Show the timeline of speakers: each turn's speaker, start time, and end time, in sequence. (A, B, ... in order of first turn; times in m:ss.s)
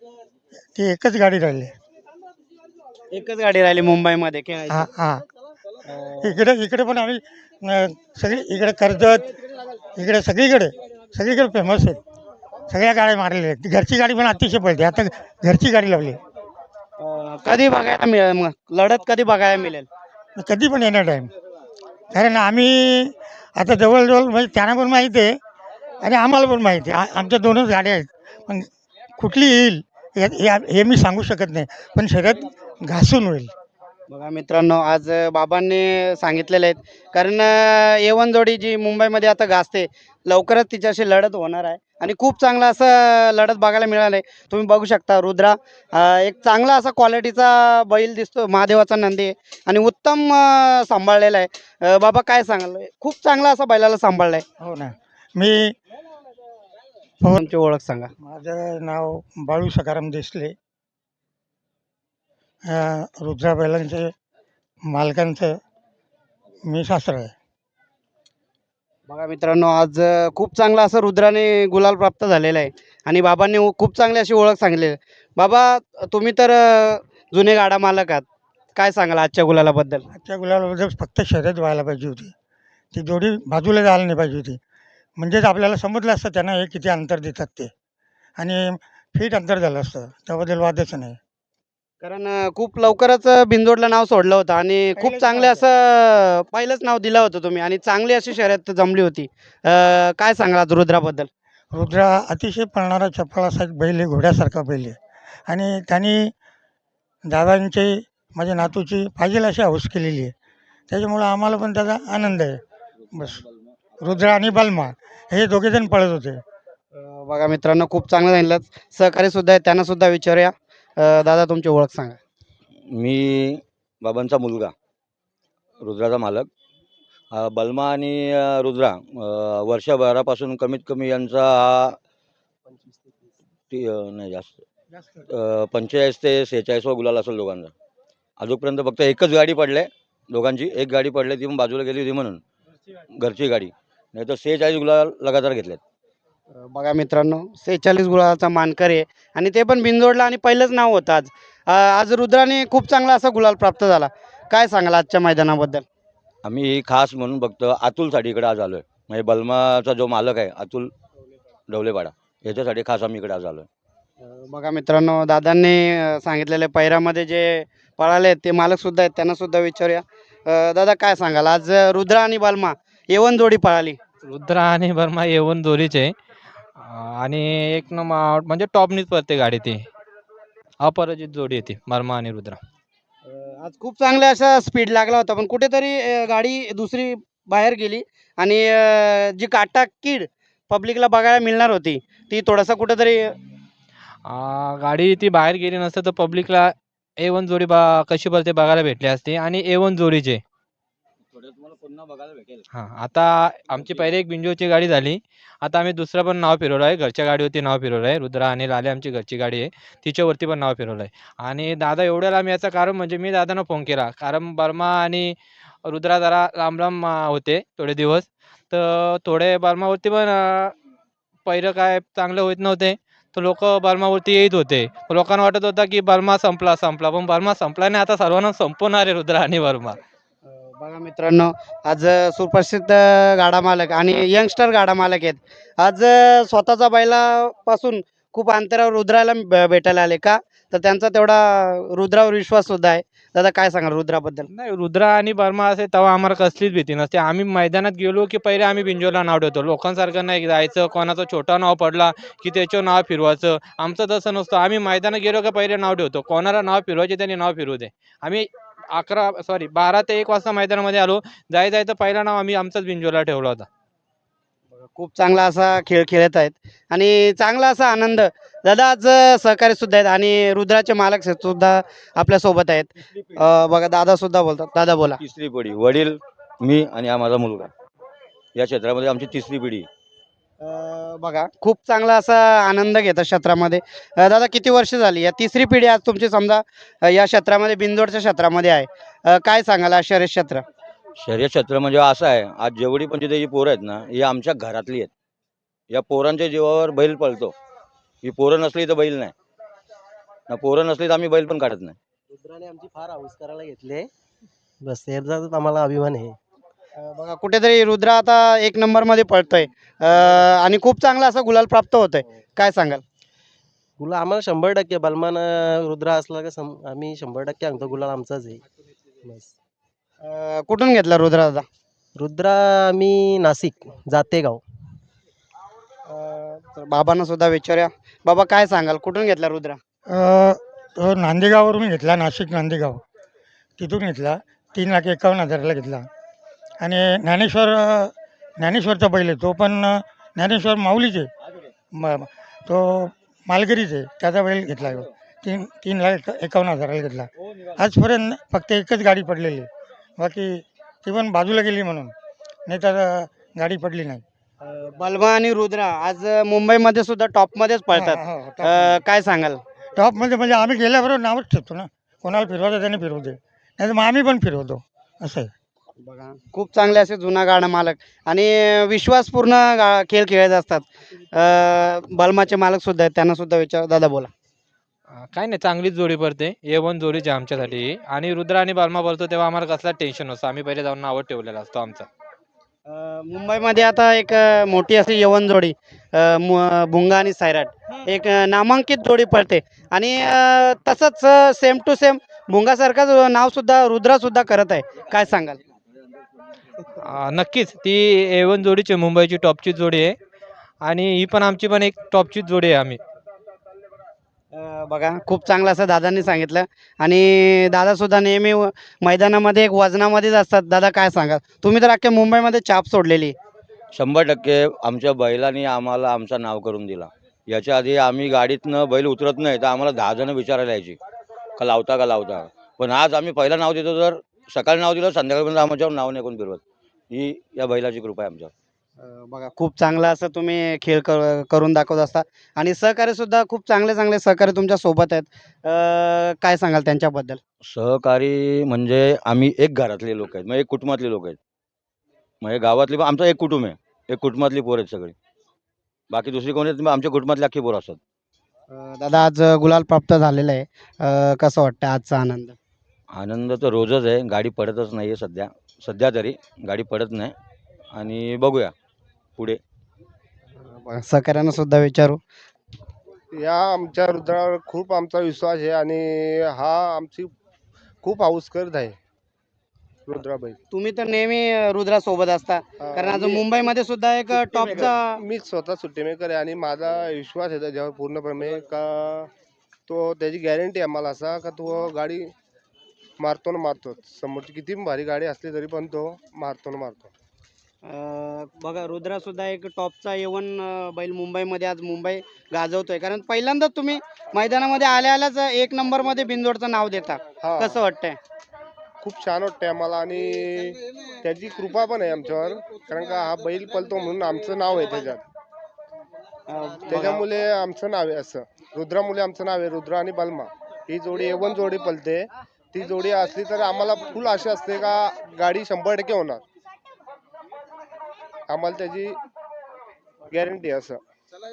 0:00.8-0:01.7 A
0:03.1-0:04.9 B
0:04.7-0:05.2 A
0:05.9-0:06.4 B
0:06.2-0:09.3 A
0:10.0-0:12.0 A
0:12.7-0:16.2 A
0:17.0-0:19.9 B
0:20.4-0:21.3 A
0:22.1-0:25.3 A
0:26.0-0:33.5 A
0:34.1-0:54.4 B
0:54.6-0:55.7 A
0:57.4-0:58.1 B
0:58.2-1:00.6 A
1:02.7-1:04.1 A
1:04.8-1:05.6 A
1:06.7-1:07.3 A
1:09.1-1:20.1 B
1:20.1-1:22.3 A
1:22.9-1:24.6 A
1:25.2-1:27.7 A
1:28.4-1:31.2 A
1:32.0-1:41.3 B
1:35.0-1:35.6 A
1:41.7-1:45.0 A
1:45.5-1:46.3 A
1:47.2-1:50.3 A
1:50.9-1:52.6 A
1:53.1-1:53.4 A
1:54.0-1:56.4 A
1:56.9-2:02.2 B
2:02.9-2:04.7 C
2:05.8-2:06.5 C
2:07.3-2:12.0 C
2:12.7-2:13.4 D
2:13.7-2:14.6 C
2:15.3-2:17.7 C
2:18.4-2:22.4 C
2:23.2-2:25.8 C
2:26.5-2:35.8 B
2:36.4-2:40.9 C
2:41.7-2:43.7 C
2:44.2-2:54.0 B
2:54.3-2:56.1 E
2:56.8-2:59.8 E
3:00.8-3:02.6 E
3:03.3-3:13.3 B
3:14.3-3:20.4 E
3:21.4-3:22.6 C
3:22.7-3:40.7 E
3:41.5-3:50.0 E
3:50.5-4:04.5 B
4:04.5-4:23.7 E
4:24.8-4:35.2 B
4:35.2-4:37.7 C
4:38.6-4:39.9 C
4:40.6-4:50.6 B
4:51.2-4:55.1 C
4:55.9-4:57.6 C
4:58.2-4:59.3 C
5:00.5-5:02.0 C
5:02.3-5:04.1 D
5:04.8-5:06.4 D
5:07.0-5:13.0 B
5:14.0-5:18.6 D
5:19.2-5:19.6 D
5:20.2-5:21.7 B
5:22.2-5:24.6 D
5:26.1-5:29.8 B
5:30.1-5:33.0 A
5:33.8-5:36.1 A
5:36.8-5:41.3 A
5:41.9-5:49.7 A
5:50.2-5:52.1 A
5:52.7-5:54.2 A
5:54.6-5:59.6 B
5:57.9-5:59.0 A
6:00.0-6:05.5 A
6:06.0-6:14.3 B
6:15.2-6:22.1 E
6:22.9-6:35.6 B
6:36.9-6:40.2 E
6:40.8-6:43.0 E
6:44.5-6:53.4 B
6:53.9-7:01.0 C
7:01.6-7:08.5 C
7:09.0-7:17.4 B
7:17.6-7:21.4 C
7:22.4-7:25.2 C
7:26.1-7:28.0 C
7:28.7-7:32.6 B
7:33.1-7:37.4 C
7:37.9-7:38.7 C
7:40.7-7:42.2 B
7:43.3-7:47.3 F
7:48.0-7:49.0 F
7:50.1-7:50.6 F
7:50.7-7:55.2 B
7:52.8-7:53.4 F
7:54.5-7:59.3 F
7:59.9-8:02.3 F
8:03.2-8:07.1 F
8:07.8-8:18.2 B
8:17.4-8:17.8 F
8:19.0-8:25.2 F
8:26.5-8:27.2 B
8:26.9-8:36.4 F
8:38.5-8:39.2 F
8:40.3-8:41.0 F